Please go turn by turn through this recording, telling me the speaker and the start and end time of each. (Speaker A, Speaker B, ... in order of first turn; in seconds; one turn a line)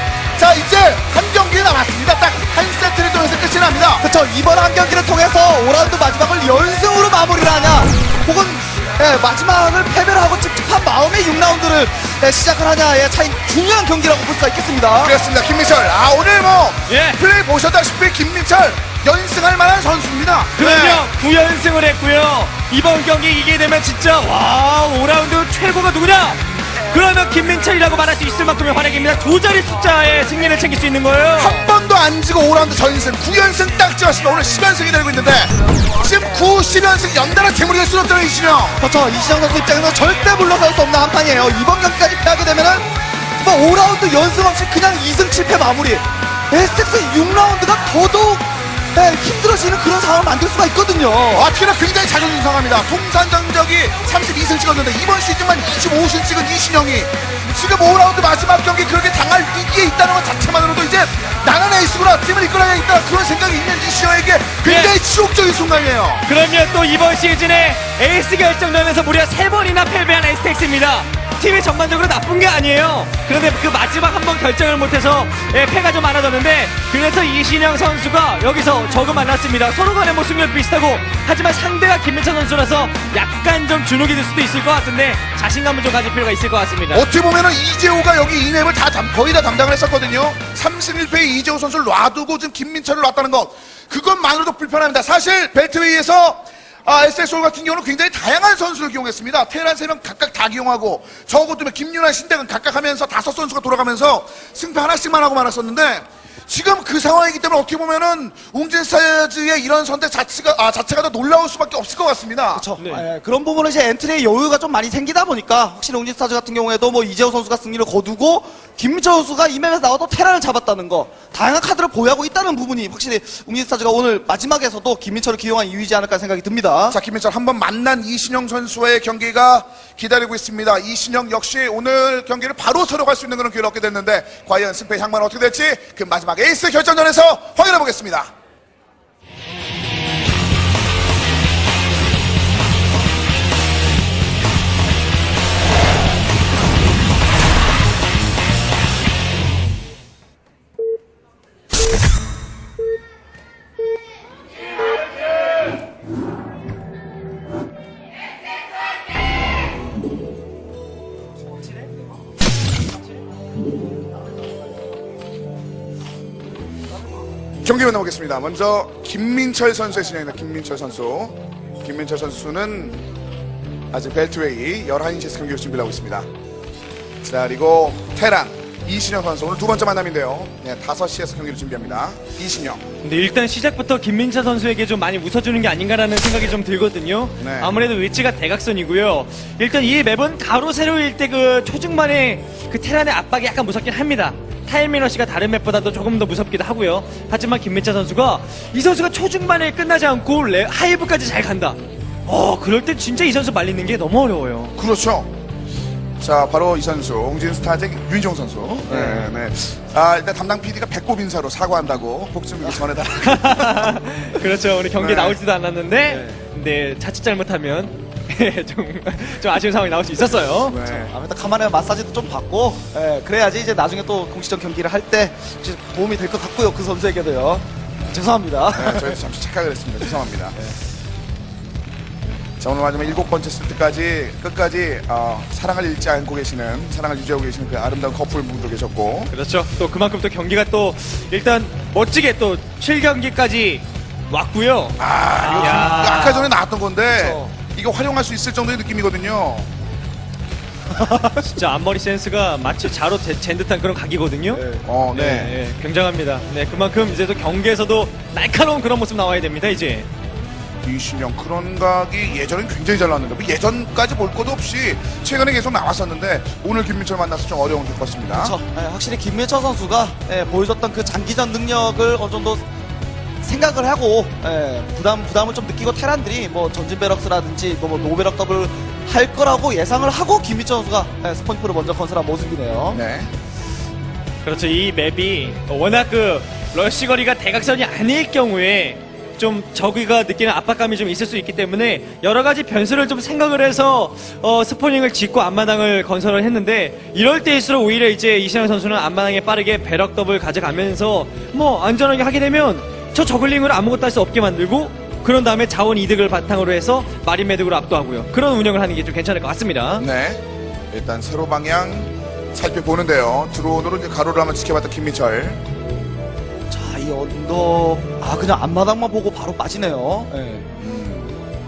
Speaker A: 0.3-4.0
Speaker B: 4.0-15.1
Speaker A: 15.0-21.1
Speaker C: 16.9-17.2
Speaker C: 20.6-31.6
Speaker A: 31.4-38.8
Speaker B: 38.8-51.5
Speaker A: 51.3-66.2
Speaker C: 64.6-65.0
Speaker C: 66.2-87.1
Speaker A: 86.9-112.7
Speaker B: 112.5-127.0
Speaker C: 112.8-113.0
Speaker A: 126.9-138.3
Speaker A: 167.6-173.0
Speaker A: 173.9-176.2
Speaker A: 177.2-182.8
Speaker C: 183.0-204.8
Speaker A: 187.4-187.7
Speaker A: 204.8-205.3
Speaker A: 206.2-213.9
Speaker C: 208.9-209.3
Speaker C: 213.2-220.8
Speaker A: 214.9-215.4
Speaker B: 216.0-216.4
Speaker A: 220.7-221.1
Speaker B: 220.8-229.2
Speaker A: 228.7-230.7
Speaker A: 232.6-239.3
Speaker C: 239.3-246.5
Speaker A: 245.0-249.7
Speaker B: 247.1-247.5
Speaker C: 251.0-260.1
Speaker B: 254.5-254.8
Speaker A: 254.8-255.5
Speaker A: 260.8-268.6
Speaker B: 268.3-272.6
Speaker B: 273.4-283.0
Speaker A: 282.9-283.3
Speaker C: 284.4-310.1
Speaker A: 310.0-315.6
Speaker B: 316.7-320.7
Speaker A: 320.8-321.3